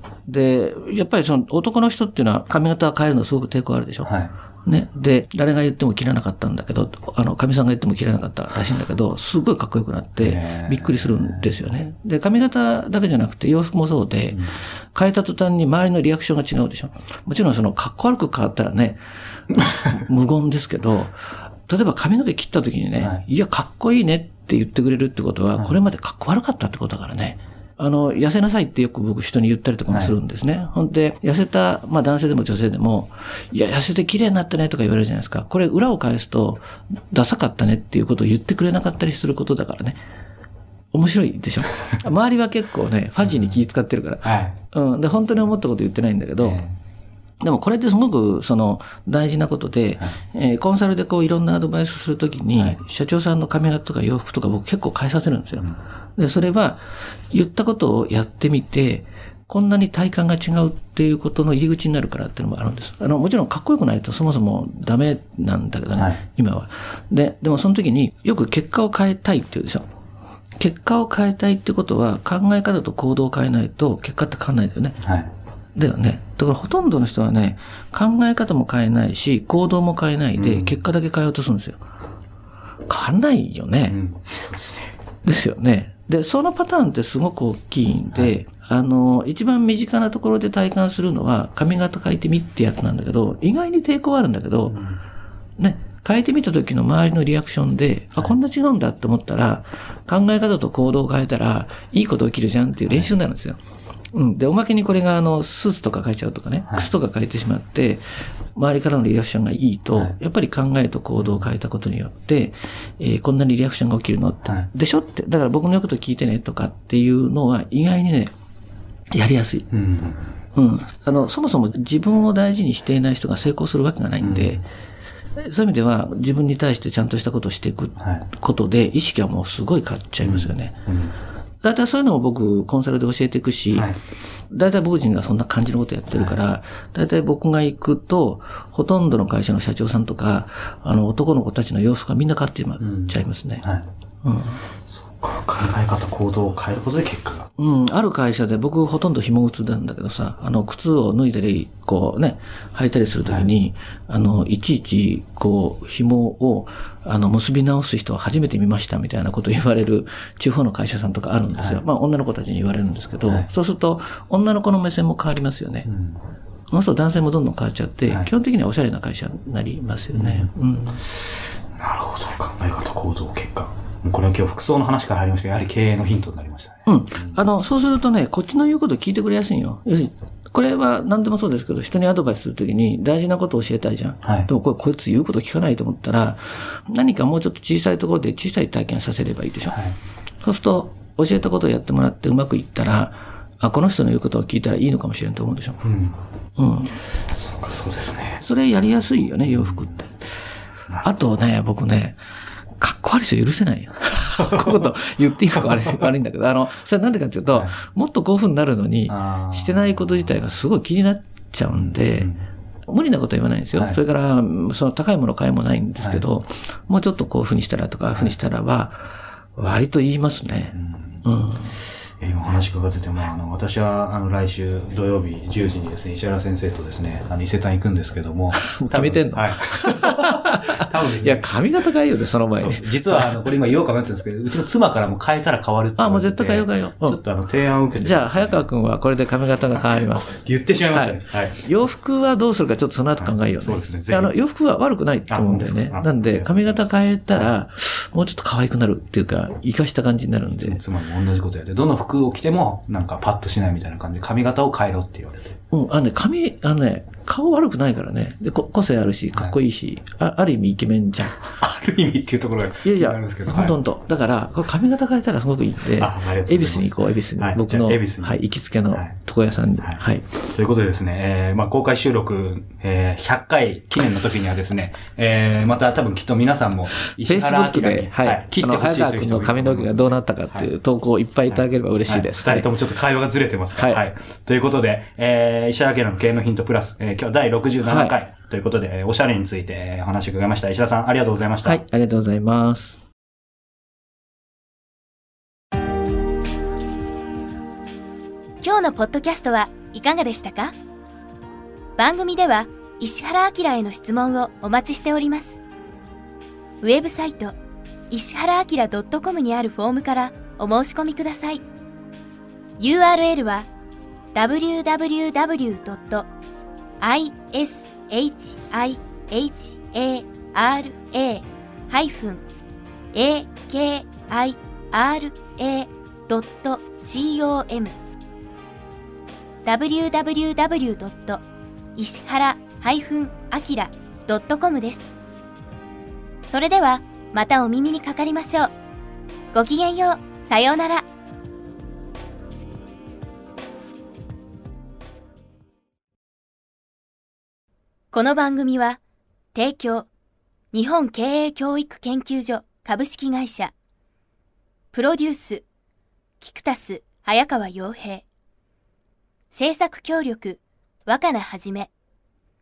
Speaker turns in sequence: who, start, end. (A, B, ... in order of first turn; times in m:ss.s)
0:00.3-0:04.1 A
0:04.1-0:04.3 B
0:04.6-0:40.0 A
0:10.2-0:11.6 B
0:29.9-0:30.1 B
0:40.9-0:46.6 A
0:43.2-0:43.6 B
0:44.2-0:44.6 B
0:46.4-0:46.8 B
0:47.4-0:55.7 A
0:56.2-1:09.9 A
1:06.0-1:06.2 B
1:10.6-1:15.0 A
1:15.0-1:15.3 B
1:15.8-1:21.8 A
1:20.4-1:20.8 B
1:22.9-1:24.0 A
1:23.9-1:25.0 B
1:25.2-1:34.8 A
1:34.7-1:35.0 B
1:35.6-1:43.6 A
1:42.9-1:43.2 B
1:44.2-1:48.0 A
1:48.6-1:58.3 A
1:51.2-1:51.5 B
1:59.1-1:59.7 A
1:59.7-2:00.3 B
2:00.6-2:04.7 A
2:04.2-2:04.6 B
2:05.4-2:10.8 A
2:08.0-2:08.3 B
2:10.2-2:11.2 B
2:11.6-2:13.9 A
2:13.7-2:14.0 B
2:14.5-2:23.6 A
2:16.1-2:16.4 B
2:22.8-2:23.9 B
2:24.2-2:24.6 A
2:24.9-2:27.5 B
2:27.6-2:45.9 A
2:33.3-2:33.5 B
2:41.6-2:41.8 B
2:45.9-2:46.2 B
2:46.7-2:51.0 A
2:50.1-2:50.5 B
2:51.8-2:57.4 B
2:56.9-3:09.8 A
3:04.2-3:04.5 B
3:10.4-3:15.8 A
3:15.8-3:16.2 B
3:16.6-3:17.0 A
3:17.3-3:18.4 B
3:18.4-3:20.0 A
3:19.4-3:20.0 B
3:21.0-3:22.2 A
3:22.8-3:32.3 A
3:24.4-3:24.7 B
3:29.1-3:30.4 B
3:31.7-3:32.4 B
3:32.9-3:41.8 A
3:33.7-3:34.0 B
3:40.7-3:41.2 B
3:42.2-3:51.6 B
3:48.6-3:53.4 A
3:52.6-3:58.7 B
3:56.0-3:57.2 A
3:58.0-4:00.4 A
3:59.7-4:01.7 B
4:00.9-4:10.8 A
4:03.2-4:04.3 B
4:05.3-4:07.5 B
4:10.6-4:15.6 B
4:15.7-4:21.4 A
4:21.4-4:23.7 B
4:22.8-4:30.3 A
4:26.0-4:28.4 B
4:29.8-4:40.7 B
4:37.2-4:42.7 A
4:41.5-4:51.8 B
4:43.7-4:44.0 A
4:47.8-4:48.2 A
4:51.6-4:53.0 A
4:58.6-5:00.8 C
5:02.0-5:05.6 C
5:06.8-5:07.6 C
5:08.1-5:11.6 C
5:12.8-5:13.7 C
5:14.3-5:16.3 C
5:17.0-5:22.4 C
5:23.1-5:28.0 C
5:29.6-5:31.4 C
5:32.0-5:35.1 C
5:36.5-5:38.7 C
5:39.5-5:41.1 C
5:48.1-5:49.0 C
5:49.5-5:50.1 C
5:50.7-5:53.7 C
5:54.9-5:55.7 C
5:56.4-5:58.2 C
5:59.5-6:01.9 C